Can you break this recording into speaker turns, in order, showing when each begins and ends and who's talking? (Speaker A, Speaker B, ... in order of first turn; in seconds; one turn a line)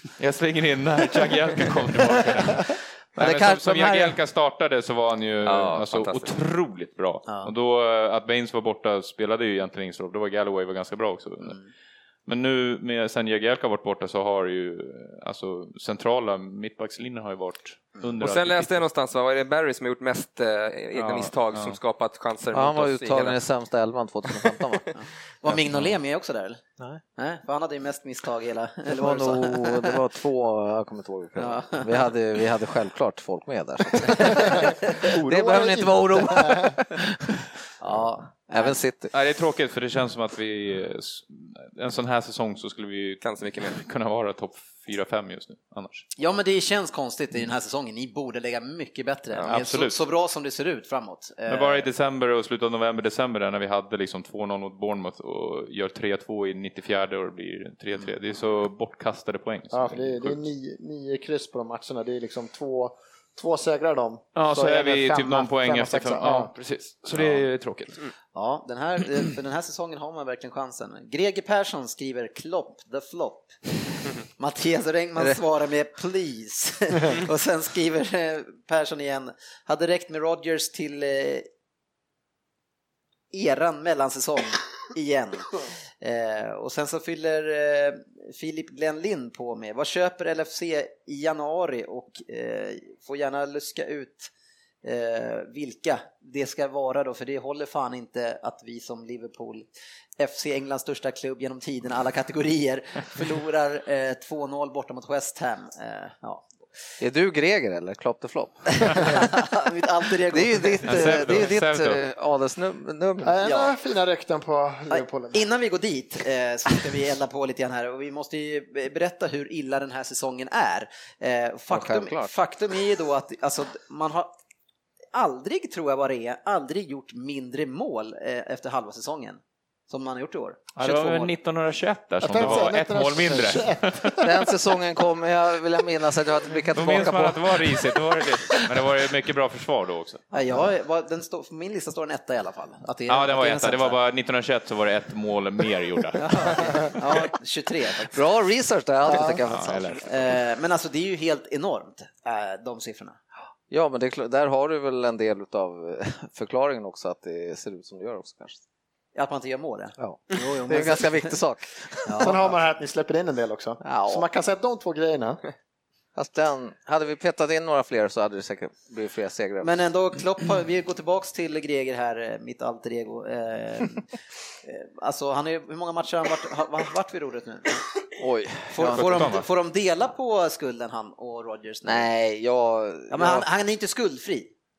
Speaker A: 0.2-11.6
Speaker B: 3.2-4.2
Speaker C: 5.4-6.3
Speaker A: 12.3-18.9
Speaker C: 18.2-23.4
Speaker A: 20.9-21.8
Speaker B: 22.5-24.9
Speaker D: 24.9-26.6
Speaker A: 25.5-25.9
Speaker D: 27.2-30.0
Speaker B: 28.9-37.4
Speaker D: 31.4-32.1
Speaker D: 34.1-34.8
Speaker E: 34.2-36.8
Speaker D: 37.8-38.8
Speaker B: 38.5-39.1
Speaker A: 39.1-46.1
Speaker C: 43.2-43.8
Speaker D: 46.2-51.9
Speaker A: 49.5-50.0
Speaker A: 51.5-60.4
Speaker E: 59.7-66.5
Speaker A: 64.3-68.0
Speaker D: 68.3-73.6
Speaker D: 74.4-81.5
Speaker D: 83.3-94.3
Speaker D: 94.8-99.7
Speaker D: 100.2-106.5
Speaker B: 107.0-109.4
Speaker D: 108.8-111.5
Speaker B: 110.3-113.4
Speaker A: 110.8-112.0
Speaker E: 113.2-115.5
Speaker D: 113.4-113.7
Speaker D: 114.9-124.3
Speaker B: 121.7-122.3
Speaker D: 125.1-131.3
Speaker A: 130.8-134.2
Speaker E: 132.2-134.4
Speaker B: 134.2-138.7
Speaker A: 136.7-140.2
Speaker D: 140.3-144.0
Speaker A: 143.1-146.9
Speaker D: 146.2-148.2
Speaker B: 148.1-150.0
Speaker E: 149.1-149.4
Speaker A: 149.3-150.2
Speaker D: 150.0-153.2
Speaker B: 153.7-158.6
Speaker D: 159.2-161.3
Speaker B: 160.0-162.4
Speaker D: 162.1-162.4
Speaker E: 162.2-165.4
Speaker B: 163.8-164.2
Speaker B: 166.2-169.7
Speaker D: 169.6-174.1
Speaker D: 174.6-177.8
Speaker B: 178.2-179.3
Speaker D: 178.7-182.1
Speaker A: 178.8-179.5
Speaker B: 181.8-183.5
Speaker D: 183.1-184.5